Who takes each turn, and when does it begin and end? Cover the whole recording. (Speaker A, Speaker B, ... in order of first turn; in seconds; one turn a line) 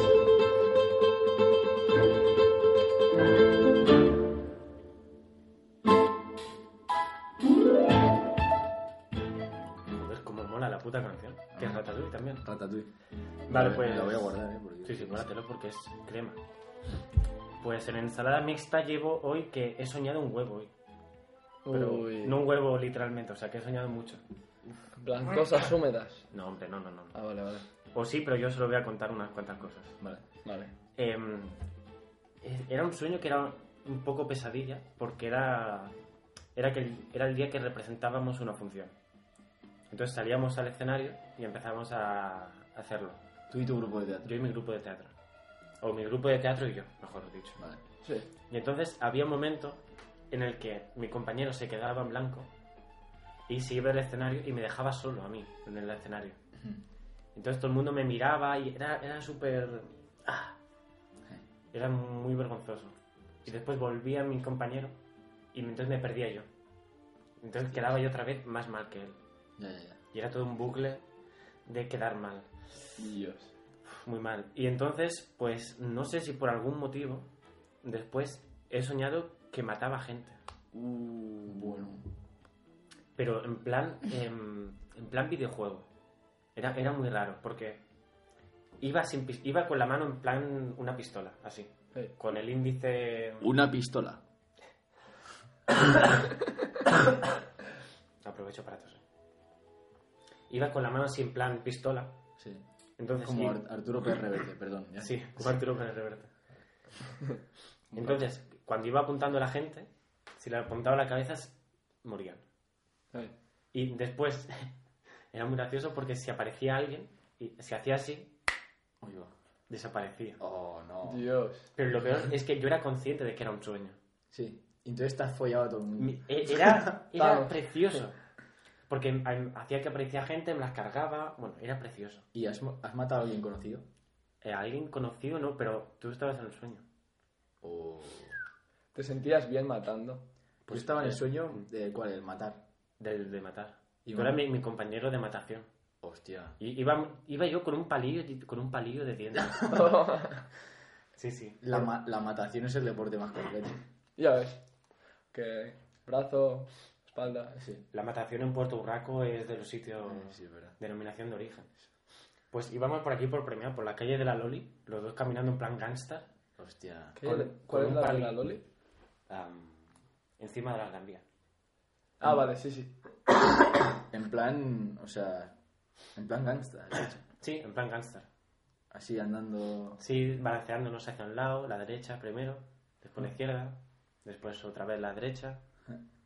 Speaker A: 9.9-12.4
Speaker B: 11.6-12.9
Speaker A: 13.5-16.4
Speaker B: 13.5-15.3
Speaker A: 17.6-20.7
Speaker C: 21.6-22.4
Speaker A: 21.7-24.2
Speaker C: 24.9-26.2
Speaker A: 26.3-27.1
Speaker C: 27.1-27.6
Speaker A: 27.9-29.9
Speaker C: 30.4-30.7
Speaker A: 31.0-31.6
Speaker A: 32.4-35.9
Speaker A: 36.5-38.9
Speaker A: 39.9-43.2
Speaker B: 43.5-44.3
Speaker A: 44.2-45.1
Speaker A: 45.8-47.6
Speaker A: 48.5-52.5
Speaker A: 53.5-56.4
Speaker A: 57.3-60.5
Speaker A: 61.7-65.0
Speaker A: 65.5-66.5
Speaker A: 67.4-69.2
Speaker B: 67.6-68.0
Speaker B: 69.6-70.0
Speaker A: 70.1-71.0
Speaker A: 71.7-72.9
Speaker C: 73.0-73.5
Speaker A: 73.9-77.3
Speaker A: 77.8-80.4
Speaker C: 80.7-81.7
Speaker B: 81.4-82.1
Speaker A: 83.2-85.9
Speaker A: 86.5-87.8
Speaker A: 88.8-93.5
Speaker B: 93.4-94.2
Speaker A: 98.2-99.0
Speaker A: 100.5-102.2
Speaker B: 102.4-102.6
Speaker A: 103.0-103.6
Speaker B: 103.2-105.7
Speaker A: 105.0-106.3
Speaker B: 107.9-108.3
Speaker A: 107.9-112.4
Speaker A: 113.7-114.7
Speaker A: 115.3-118.3
Speaker B: 119.0-119.3
Speaker A: 119.7-120.4
Speaker B: 120.4-121.3
Speaker C: 121.0-121.7
Speaker A: 121.8-124.0
Speaker B: 124.3-127.0
Speaker A: 126.0-128.2
Speaker C: 127.2-127.5
Speaker A: 128.9-132.2
Speaker B: 132.3-133.9
Speaker A: 134.4-136.8
Speaker B: 137.6-138.4
Speaker C: 138.9-140.2
Speaker A: 140.7-141.6
Speaker B: 140.7-142.6
Speaker A: 143.0-145.7
Speaker B: 144.1-144.4
Speaker B: 146.0-146.6
Speaker A: 146.6-149.8
Speaker C: 149.7-150.4
Speaker A: 151.2-151.6
Speaker B: 151.6-153.8
Speaker C: 154.2-154.6
Speaker C: 155.3-157.6
Speaker B: 157.6-157.8
Speaker A: 157.9-161.7
Speaker B: 160.1-160.8
Speaker A: 162.5-166.3
Speaker B: 166.6-168.1
Speaker C: 167.2-168.6
Speaker A: 167.3-168.4
Speaker A: 169.3-171.2
Speaker C: 172.2-173.0
Speaker B: 173.9-175.6
Speaker B: 176.1-177.2
Speaker A: 177.4-178.3
Speaker B: 178.9-180.0
Speaker A: 180.0-185.6